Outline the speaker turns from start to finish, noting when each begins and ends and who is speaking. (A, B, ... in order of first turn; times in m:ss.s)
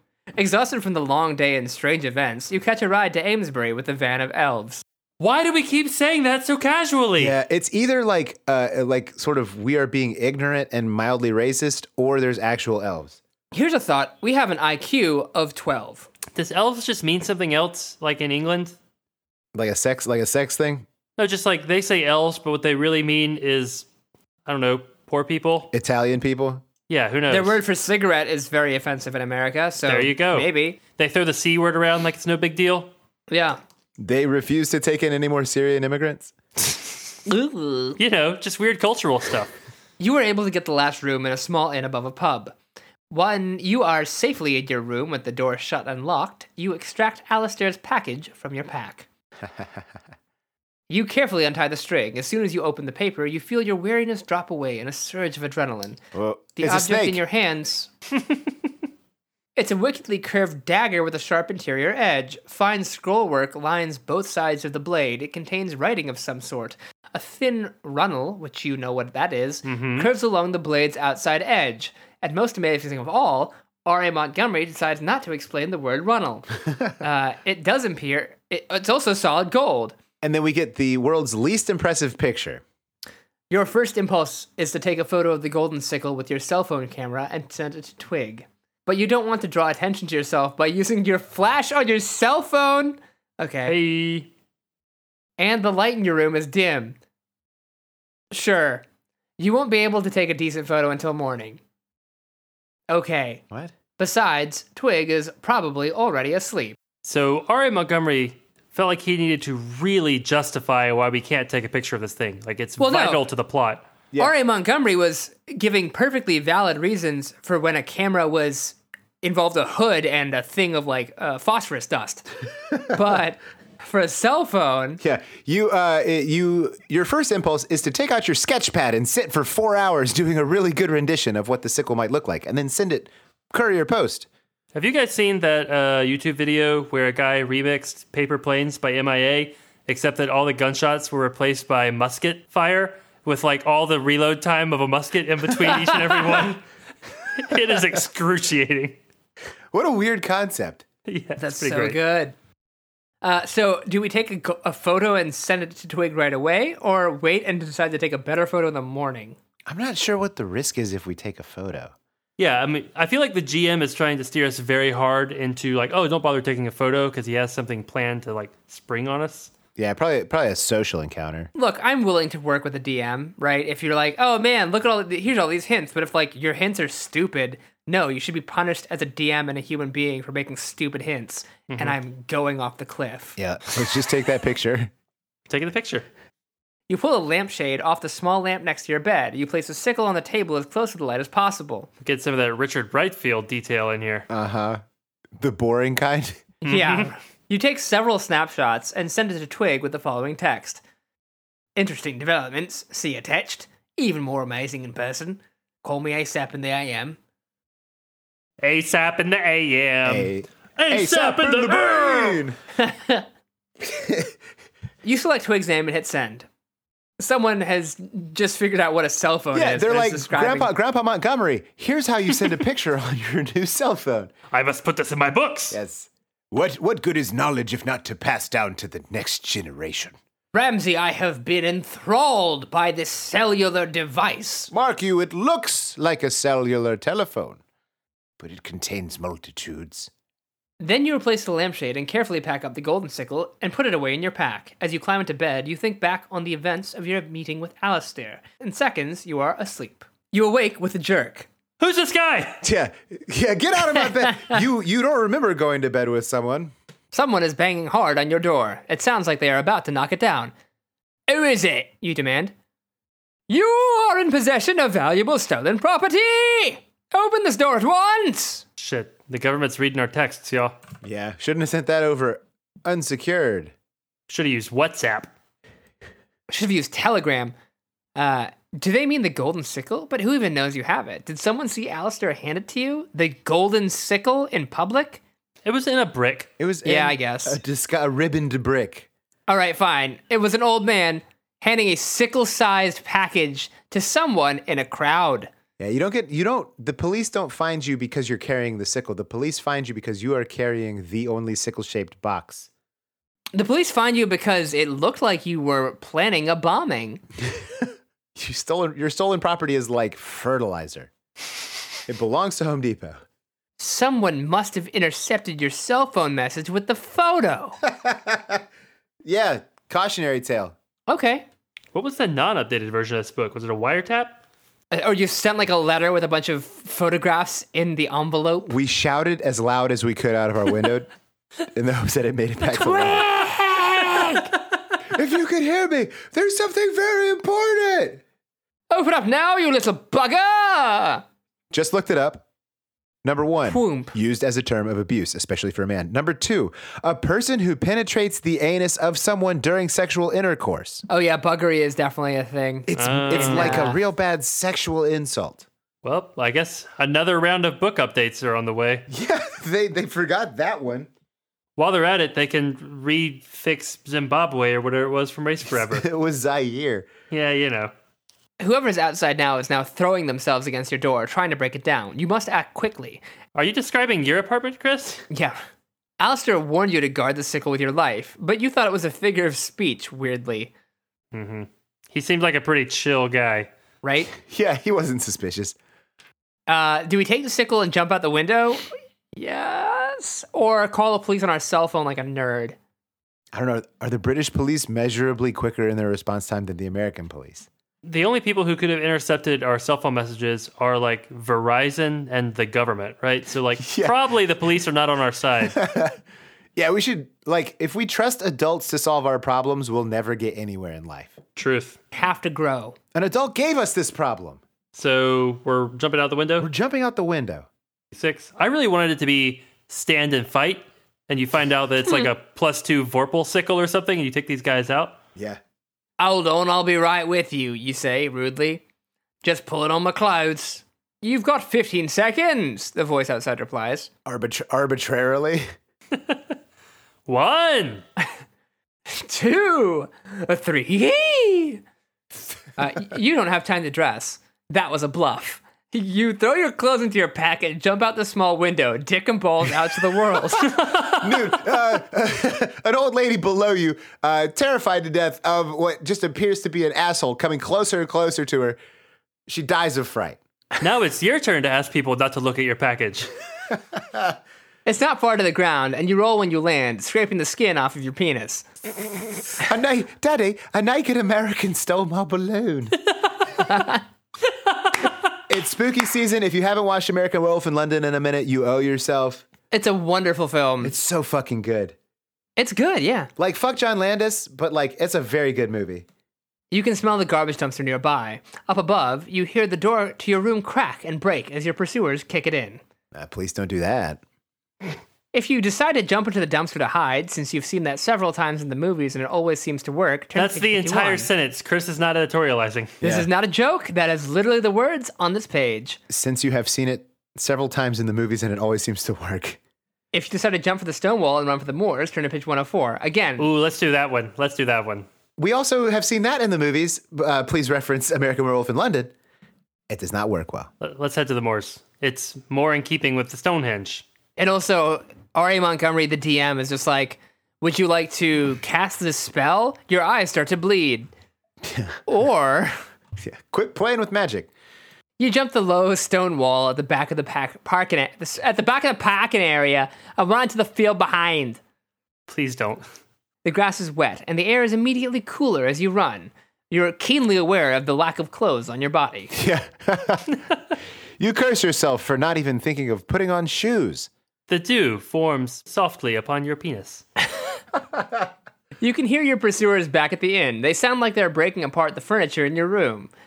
0:00.4-0:04.8 A
0:05.2-0:07.4 B
0:07.2-0:13.2 C
0:13.5-0:16.1 A
0:16.3-0:18.8 B
0:19.5-0:20.9 C
0:21.2-0:23.8 B
0:24.5-0:25.7 B
0:25.7-0:26.6 C
0:26.9-0:27.6 B
0:27.3-0:30.8 A
0:29.9-0:32.9 B
0:33.3-0:33.6 A
0:34.0-0:36.3 C
0:37.3-0:38.0 A
0:38.0-0:39.5 B
0:40.0-0:42.6 A
0:43.1-0:49.1 A
0:49.4-0:49.8 C
0:50.9-0:56.0 A
0:56.1-0:57.2 C
0:56.6-0:57.9 A
0:59.6-1:16.5 A
1:09.7-1:10.1 B
1:17.0-1:20.0 A
1:20.2-1:22.6 C
1:23.5-1:33.8 A
1:33.7-1:34.3 B
1:35.4-1:37.0 A
1:38.3-1:38.8 A
1:39.4-1:41.6 A
1:42.9-1:43.4 A
1:44.0-1:46.8 A
1:47.0-1:53.9 B
1:52.8-1:53.2 A
1:54.2-2:02.3 A
2:02.9-2:05.0 A
2:05.0-2:14.3 C
2:14.7-2:26.6 B
2:27.4-2:29.0 B
2:29.7-2:30.9 C
2:31.1-2:32.0 B
2:31.4-2:32.4 A
2:33.2-2:39.4 A
2:39.7-2:41.9 C
2:42.4-2:49.5 B
2:49.8-2:51.5 C
2:51.5-3:03.4 A
3:01.7-3:02.0 B
3:03.4-3:04.9 C
3:05.5-3:06.1 B
3:06.9-3:11.9 A
3:12.0-3:14.3 B
3:14.3-3:14.8 C
3:15.4-3:16.4 C
3:16.6-3:20.8 A
3:16.6-3:17.1 B
3:21.8-3:27.2 A
3:28.6-3:32.4 B
3:30.0-3:32.6 C
3:32.8-3:33.3 A
3:33.8-3:34.4 C
3:35.0-3:36.5 A
3:37.2-3:40.7 A
3:39.5-3:44.3 C
3:44.5-3:45.8 B
3:45.7-3:50.2 C
3:50.5-3:54.7 A
3:54.7-3:57.6 C
3:58.4-4:00.1 C
4:00.8-4:11.5 A
4:11.8-4:12.6 B
4:12.6-4:16.7 C
4:14.3-4:14.6 A
4:17.1-4:20.5 A
4:21.3-4:22.5 A
4:23.5-4:28.6 A
4:28.8-4:30.8 B
4:31.0-4:33.7 C
4:34.3-4:35.3 B
4:36.5-4:37.5 A
4:38.2-4:45.2 A
4:45.6-4:46.5 B
4:46.6-4:49.1 C
4:46.8-4:47.6 A
4:49.5-4:55.5 A
4:55.8-5:02.7 C
5:03.5-5:07.2 A
5:07.5-5:11.1 C
5:12.1-5:13.2 C
5:13.8-5:17.8 A
5:17.8-5:18.6 C
5:19.2-5:20.8 C
5:21.1-5:21.4 A
5:21.9-5:24.4 B
5:24.9-5:28.7 A
5:28.7-5:31.1 C
5:31.7-5:33.3 C
5:32.7-5:34.5 A
5:35.1-5:38.2 C
5:38.9-5:41.2 A
5:41.7-5:42.4 C
5:43.2-5:51.0 C
5:43.7-5:44.1 A
5:51.1-5:54.0 A
5:52.9-5:55.6 C
5:52.9-5:53.9 B
5:56.0-5:59.1 B
5:59.1-6:01.1 C
6:01.8-6:06.1 B
6:05.8-6:07.1 C
6:07.3-6:07.9 B
6:08.6-6:13.2 A
6:13.6-6:15.2 B
6:15.3-6:15.6 A
6:16.2-6:20.7 A
6:21.3-6:23.7 B
6:24.0-6:24.3 A
6:24.4-6:25.8 C
6:26.7-6:32.8 A
6:33.5-6:37.7 C
6:38.0-6:45.9 B
6:43.8-6:44.2 C
6:45.7-6:46.2 C
6:46.8-6:51.4 C
6:51.6-6:52.0 B
6:52.1-6:53.0 A
6:53.1-6:54.6 C
6:54.9-6:56.7 B
6:56.6-6:57.7 C
6:58.1-7:05.2 B
7:05.4-7:05.6 C
7:06.2-7:08.8 A
7:09.4-7:14.1 A
7:14.3-7:15.6 C
7:16.1-7:16.4 B
7:17.3-7:18.0 B
7:19.1-7:21.8 A
7:22.8-7:30.9 A
7:30.8-7:31.2 B
7:31.0-7:38.8 C
7:39.5-7:40.4 C
7:40.8-7:43.3 B
7:44.0-7:44.4 C
7:44.9-7:48.7 A
7:49.6-7:53.0 C
7:53.6-7:54.0 A
7:55.5-7:59.5 C
7:59.7-8:00.9 A
8:00.8-8:02.0 C
8:02.6-8:03.3 A
8:03.4-8:06.1 C
8:06.7-8:12.8 A
8:13.1-8:14.2 C
8:15.3-8:21.3 A
8:20.4-8:23.0 B
8:23.0-8:23.3 C
8:23.0-8:26.0 A
8:26.1-8:29.6 C
8:30.1-8:33.5 A
8:33.4-8:35.1 B
8:35.4-8:39.1 C
8:39.9-8:40.7 C
8:40.8-8:44.1 B
8:44.4-8:51.1 A
8:51.6-8:52.0 C
8:52.1-8:52.8 A
8:53.2-8:54.5 C
8:55.2-9:01.6 A
9:02.3-9:02.8 B
9:03.4-9:09.4 A
9:09.3-9:10.3 C
9:11.2-9:14.1 C
9:14.5-9:17.0 B
9:18.8-9:23.1 A